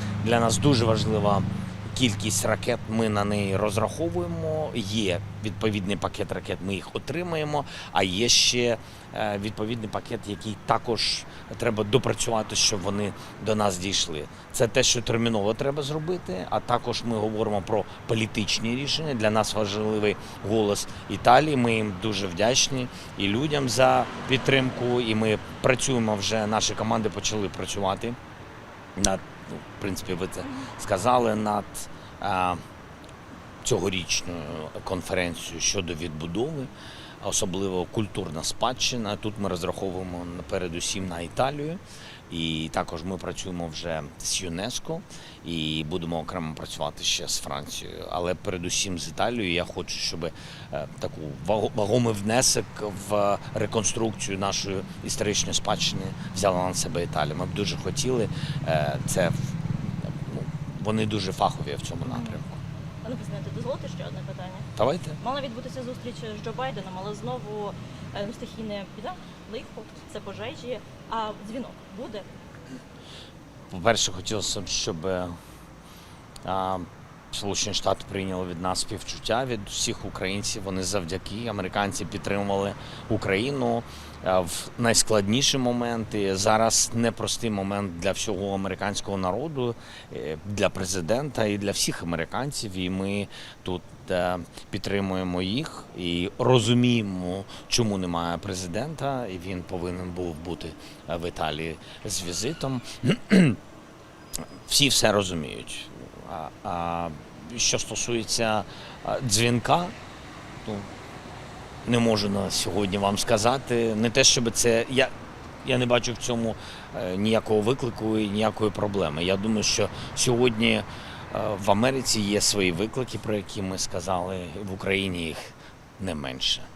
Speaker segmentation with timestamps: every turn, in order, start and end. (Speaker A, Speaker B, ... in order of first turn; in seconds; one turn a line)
Speaker A: 0.2-28.2
Speaker A: 29.0-32.6
Speaker B: 30.4-30.7
Speaker A: 33.6-36.7
Speaker A: 37.2-62.6
Speaker B: 62.0-62.4
Speaker B: 63.0-64.7
Speaker A: 64.8-65.2
Speaker B: 65.2-72.3
Speaker A: 73.7-75.3
Speaker A: 76.5-103.6
Speaker A: 104.7-109.9
Speaker A: 110.6-110.9
Speaker A: 111.8-115.1
Speaker A: 115.6-126.7